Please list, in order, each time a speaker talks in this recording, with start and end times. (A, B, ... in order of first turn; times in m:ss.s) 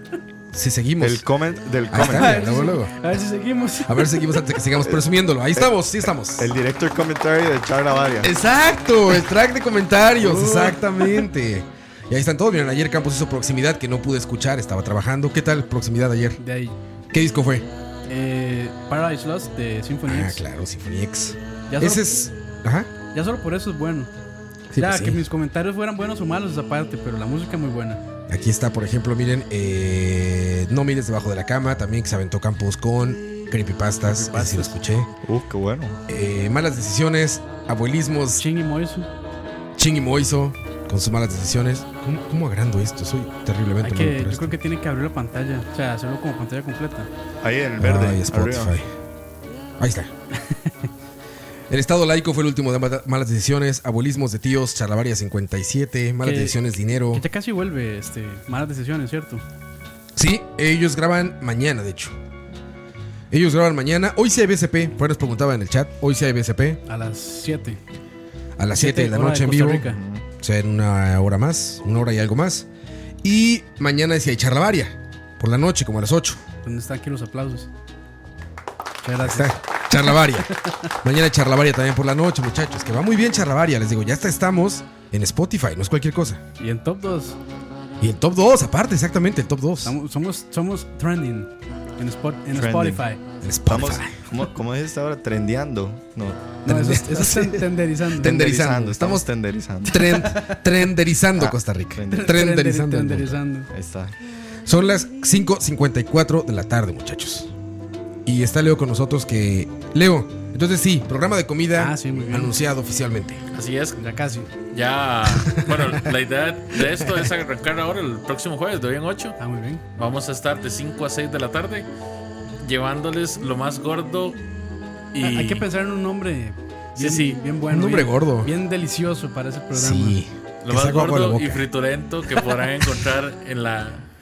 0:00.5-0:01.2 A
0:01.0-0:02.4 B
0:01.9-0:02.9 A
0:02.0-0:04.3 C
0:03.8-0:06.5 A
0:06.4-0:08.3 B
0:08.2-0:16.4 A
0:10.2-0:11.3 C
0:16.4-0:16.8 C
0:17.1-0:17.7 A
0:18.1-0:20.4 C
0:20.0-0:22.9 A
0:21.7-0:22.1 C
0:23.1-0:24.1 C
0:24.7-0:25.2 A
0:24.8-0:28.0 C
0:28.3-0:35.1 A
0:34.0-0:34.7 C
0:35.2-0:36.0 B
0:36.1-0:38.4 A
0:38.4-0:39.1 C
0:39.8-0:44.6 A
0:43.8-0:47.1 C
0:47.4-0:48.7 B
0:47.8-0:48.9 A
0:49.8-0:50.1 A
0:50.4-0:50.9 C
0:51.7-0:57.2 A
0:56.2-0:56.6 C
0:57.1-0:59.4 C
1:00.1-1:02.2 A
1:03.3-1:06.8 A
1:06.8-1:07.8 C
1:08.6-1:09.9 A
1:08.7-1:10.0 C
1:09.8-1:10.2 B
1:10.4-1:12.7 A
1:13.2-1:16.4 A
1:16.6-1:17.7 C
1:19.0-1:20.9 C
1:19.2-1:20.5 A
1:21.0-1:26.4 A
1:26.6-1:27.4 C
1:28.0-1:29.9 A
1:29.8-1:33.2 C
1:32.5-1:33.0 B
1:33.4-1:34.2 A
1:33.7-1:36.5 B
1:36.6-1:38.4 C
1:36.6-1:37.7 A
1:38.2-1:40.0 B
1:38.2-1:39.2 A
1:39.8-1:43.4 A
1:40.0-1:40.6 C
1:41.4-1:42.4 B
1:42.1-1:43.7 C
1:43.7-1:44.1 B
1:44.6-1:47.5 A
1:48.2-1:53.4 A
1:51.8-1:52.5 C
1:53.5-1:54.0 D
1:54.0-1:54.5 C
1:54.7-1:59.4 D
1:55.5-1:55.9 A
1:59.4-1:59.8 C
2:00.0-2:01.9 D
2:02.6-2:04.4 D
2:05.1-2:05.6 D
2:05.2-2:10.2 C
2:07.0-2:07.4 D
2:07.7-2:08.5 A
2:09.7-2:11.6 A
2:10.6-2:14.1 D